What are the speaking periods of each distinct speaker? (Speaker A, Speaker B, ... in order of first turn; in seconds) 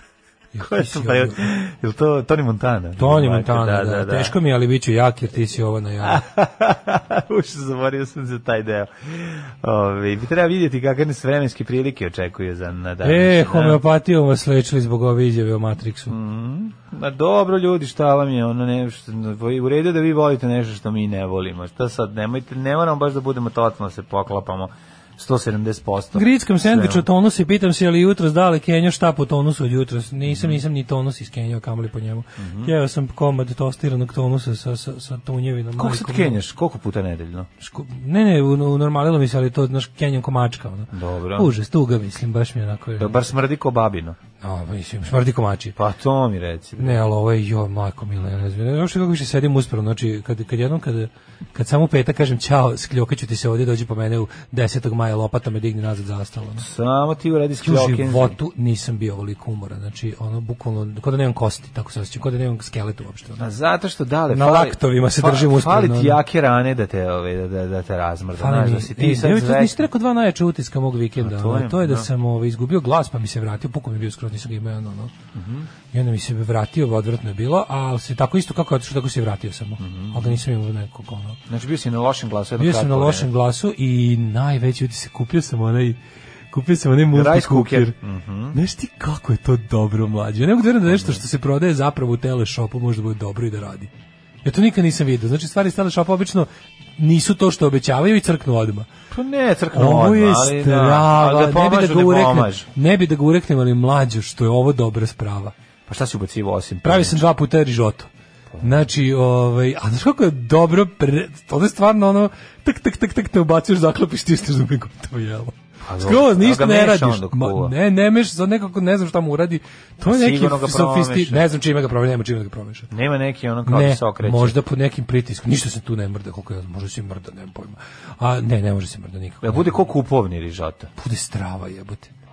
Speaker A: 0.5-1.5, 3.0-6.2, 13.0-16.1, 26.1-36.4, 37.6-43.2, 44.4-45.7, 46.8-56.6, 57.6-63.5, 64.3-66.2, 68.4-75.1, 75.9-81.4, 82.6-86.0, 86.5-88.0, 88.5-93.9, 94.4-98.9, 99.7-105.5, 106.8-108.1, 108.6-122.9, 123.7-129.7, 131.0-132.1
Speaker B: 0.6-4.3, 6.0-13.8, 16.1-27.1, 30.3-30.6, 32.4-32.7, 35.8-37.5, 40.9-41.5, 43.0-44.2, 45.8-47.0, 56.6-58.4, 63.4-69.8, 71.2-72.1, 75.3-75.7, 79.8-80.3, 81.5-83.3, 87.1-88.6, 90.9-91.2, 99.1-102.7, 105.9-107.2, 108.5-108.8, 115.8-117.7, 120.0-121.4, 122.9-124.6, 129.4-130.9